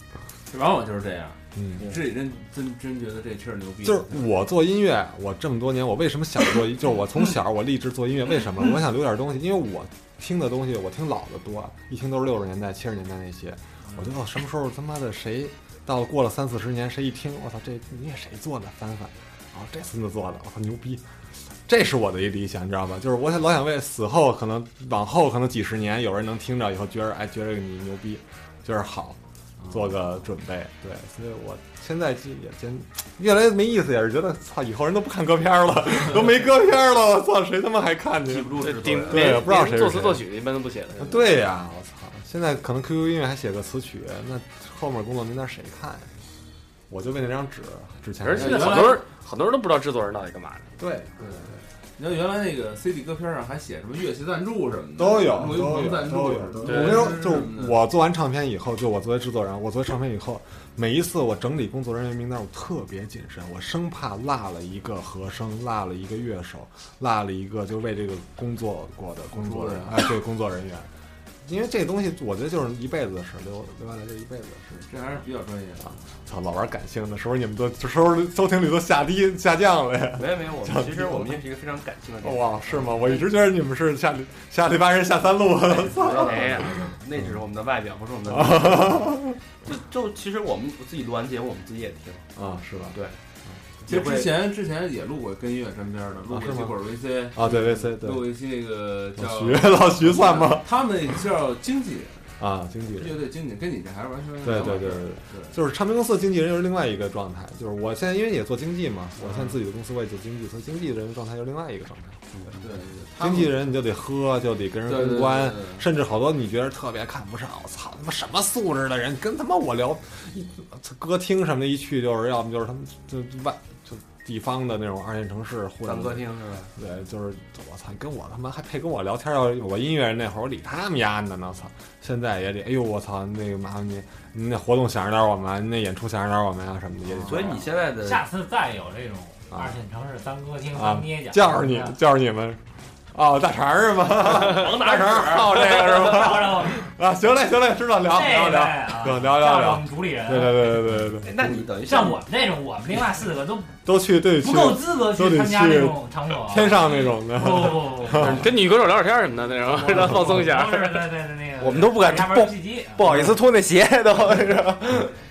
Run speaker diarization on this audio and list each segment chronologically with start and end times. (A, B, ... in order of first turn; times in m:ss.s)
0:00.5-0:04.3 A
0:01.6-0:02.0 B
0:03.8-0:21.1 B
0:21.6-0:40.2 B
0:29.6-0:29.9 A
0:38.3-0:39.5 C
0:38.6-0:41.3 D
0:41.0-0:46.1 B
0:46.9-0:49.0 B
0:48.2-0:50.8 D
0:48.4-0:49.0 A
0:50.8-0:51.6 B
0:51.2-0:57.8 A
0:55.0-1:10.9 B
0:56.6-0:57.1 D
1:09.3-1:10.0 A
1:11.4-1:14.9 B
1:14.8-1:16.0 A
1:15.8-1:21.4 B
1:20.2-1:23.3 C
1:22.2-1:27.4 B
1:25.7-1:32.3 C
1:28.3-1:29.4 B
1:32.4-1:33.0 B
1:33.5-1:33.9 B
1:33.9-1:34.4 C
1:33.9-1:42.2 A
1:36.3-1:36.8 B
1:37.3-1:38.3 B
1:39.2-1:40.7 B
1:42.4-1:43.2 B
1:43.0-1:45.6 A
1:44.4-1:52.2 B
1:49.2-1:49.6 A
1:52.5-1:53.6 A
1:53.2-2:17.6 B
1:54.9-1:55.8 A
2:05.8-2:06.7 C
2:17.1-2:17.7 A
2:17.2-2:18.2 C
2:18.0-2:22.0 E
2:20.7-2:22.6 B
2:23.1-2:31.6 B
2:24.2-2:25.8 C
2:25.6-2:26.8 E
2:28.1-2:30.9 E
2:31.1-2:32.2 C
2:31.8-2:33.8 E
2:33.8-2:38.6 B
2:34.4-2:38.5 E
2:38.1-2:41.1 D
2:39.7-2:43.0 E
2:41.6-2:45.1 F
2:43.0-2:43.3 B